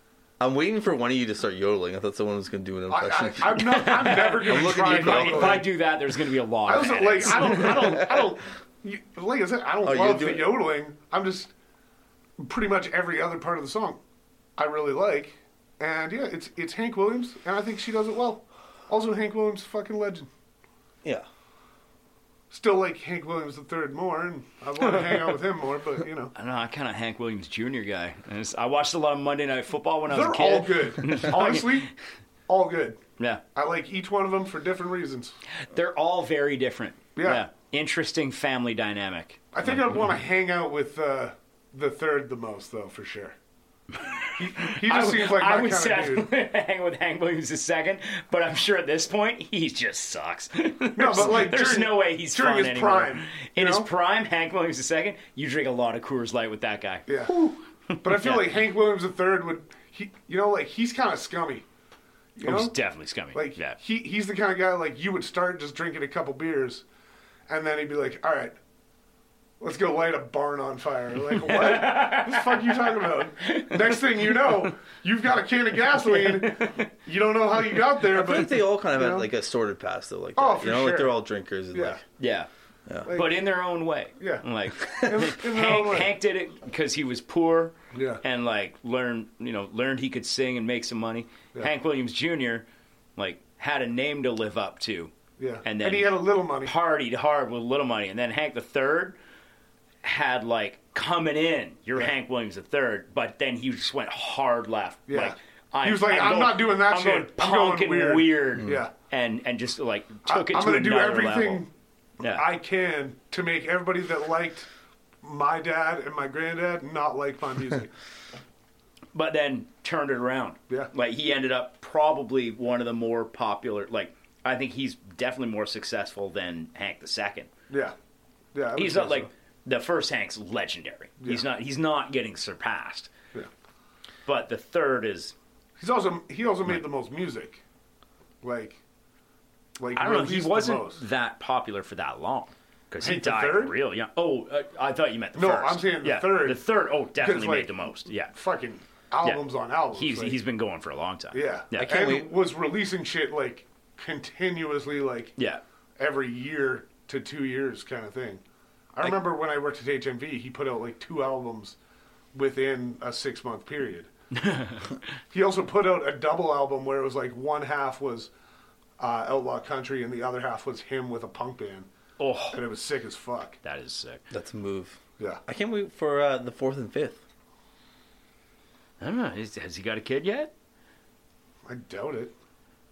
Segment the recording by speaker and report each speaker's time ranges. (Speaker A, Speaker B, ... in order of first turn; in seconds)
Speaker A: 0.4-5.7, 9.8-10.6, 78.1-82.0, 151.8-152.3, 174.3-177.2
Speaker B: 2.9-5.7, 6.7-11.5, 12.4-14.0, 14.6-20.3, 22.5-26.3, 30.1-31.9, 32.5-33.0, 33.5-35.4, 37.2-37.5, 39.5-43.4, 44.4-46.3, 51.0-53.9, 57.1-61.7, 62.4-62.8, 63.3-66.8, 67.5-68.6, 69.6-79.3, 80.4-81.2, 81.7-82.0, 83.0-83.4, 84.2-86.1, 87.9-88.2, 95.4-96.7, 105.1-108.9, 110.3-114.7, 115.2-117.9, 127.7-128.0, 128.5-129.3, 135.8-137.6, 138.4-138.8, 139.8-141.0, 143.0-143.8, 145.3-150.4, 151.3-155.3, 156.0-158.4, 158.9-161.8, 162.3-164.1, 165.3-168.3, 169.0-171.9, 172.5-173.6, 181.7-182.3
Speaker C: 3.6-8.0, 26.4-31.9, 35.7-39.8, 44.3-57.3, 57.9-58.5, 62.4-63.8, 71.4-72.9, 73.4-74.7, 75.9-76.9, 82.2-82.5, 83.1-92.7, 93.2-95.1, 95.6-99.2, 100.0-111.6, 112.2-112.5, 119.1-127.5, 128.8-133.1, 134.3-135.3, 139.9-148.3, 149.2-152.1, 164.4-164.9, 172.2-172.6, 173.6-174.2, 179.0-180.5